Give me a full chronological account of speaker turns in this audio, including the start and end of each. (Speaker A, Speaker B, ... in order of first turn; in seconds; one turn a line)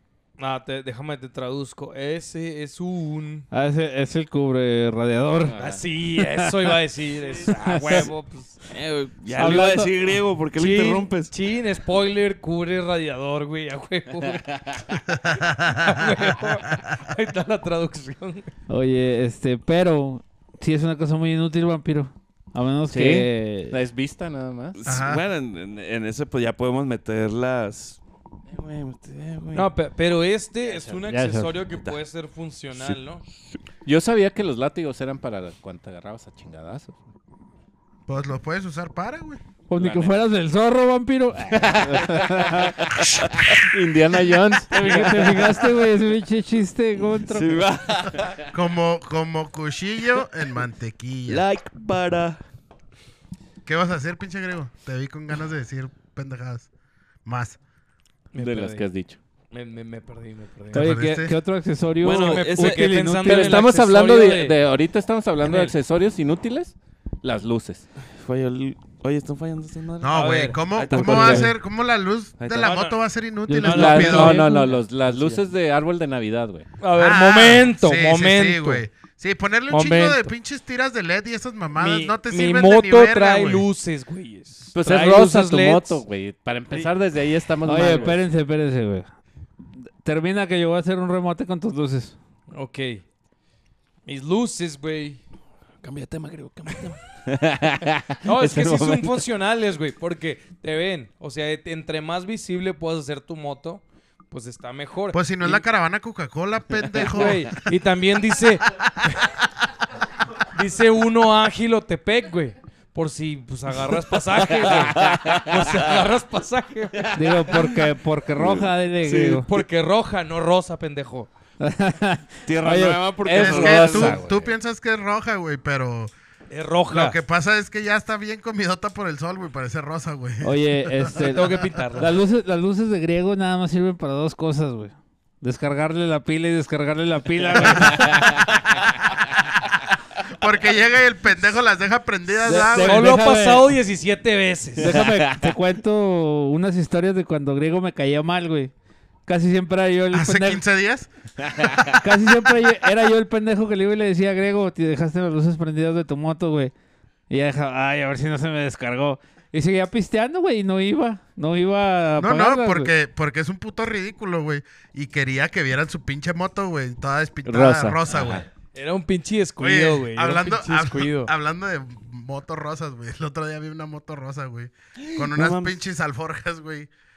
Speaker A: 0.4-3.5
Speaker B: 3.5-5.6
Speaker C: 5.5-5.8
Speaker A: 5.6-8.6
Speaker B: 6.2-6.5
Speaker B: 7.5-8.1
Speaker D: 8.7-11.3
Speaker B: 9.3-9.9
Speaker A: 10.6-18.5
Speaker C: 14.2-14.8
Speaker E: 15.1-15.9
Speaker B: 18.7-23.8
Speaker C: 22.9-24.8
Speaker D: 24.8-29.7
Speaker E: 24.9-25.2
Speaker A: 29.5-33.2
Speaker C: 30.6-31.0
Speaker B: 31.1-31.5
Speaker D: 31.7-32.0
Speaker C: 33.9-37.0
Speaker E: 38.1-39.4
Speaker B: 39.7-42.9
Speaker C: 39.8-40.1
Speaker C: 41.5-45.5
Speaker B: 44.7-47.6
Speaker D: 47.2-48.4
Speaker E: 48.5-51.5
Speaker D: 51.3-52.4
Speaker E: 53.7-56.7
Speaker E: 57.3-57.6
Speaker A: 58.3-58.9
Speaker C: 58.4-59.2
Speaker A: 59.5-61.0
Speaker E: 60.7-61.4
Speaker B: 60.7-63.6
Speaker D: 62.0-62.9
Speaker A: 62.1-64.6
Speaker C: 63.2-67.8
Speaker A: 65.4-65.7
Speaker D: 68.1-71.5
Speaker E: 70.0-74.5
Speaker A: 70.1-70.6
Speaker C: 71.0-71.5
Speaker D: 72.4-72.9
Speaker A: 72.6-73.0
Speaker B: 73.5-74.7
Speaker A: 73.6-75.3
Speaker C: 73.7-76.7
Speaker A: 76.8-78.8
Speaker E: 77.0-83.7
Speaker A: 79.7-80.3
Speaker A: 81.8-86.0
Speaker C: 84.7-88.2
Speaker B: 87.7-89.1
Speaker B: 89.8-92.2
Speaker A: 92.5-93.0
Speaker A: 94.1-95.2
Speaker D: 95.8-97.0
Speaker C: 97.3-99.2
Speaker A: 98.2-105.6
Speaker E: 105.1-107.5
Speaker A: 107.0-108.7
Speaker E: 108.7-109.2
Speaker A: 110.5-117.5
Speaker C: 114.6-115.5
Speaker D: 114.7-115.9
Speaker B: 117.1-119.5
Speaker D: 118.4-119.4
Speaker A: 119.1-121.3
Speaker B: 121.6-123.1
Speaker D: 122.5-124.2
Speaker C: 123.2-124.5
Speaker E: 123.3-126.1
Speaker A: 126.5-127.2
Speaker E: 126.9-131.5
Speaker B: 130.4-138.4
Speaker A: 131.2-132.1
Speaker C: 137.8-138.4
Speaker E: 140.3-143.2
Speaker B: 142.4-143.7
Speaker A: 142.8-145.0
Speaker B: 144.8-148.7
Speaker C: 144.8-145.5
Speaker B: 149.3-150.6
Speaker E: 150.1-152.1
Speaker C: 151.4-151.7
Speaker B: 151.9-156.7
Speaker B: 157.3-162.9
Speaker E: 162.2-168.4
Speaker C: 167.4-168.4
Speaker A: 168.7-171.3
Speaker E: 169.6-176.9
Speaker D: 175.0-175.8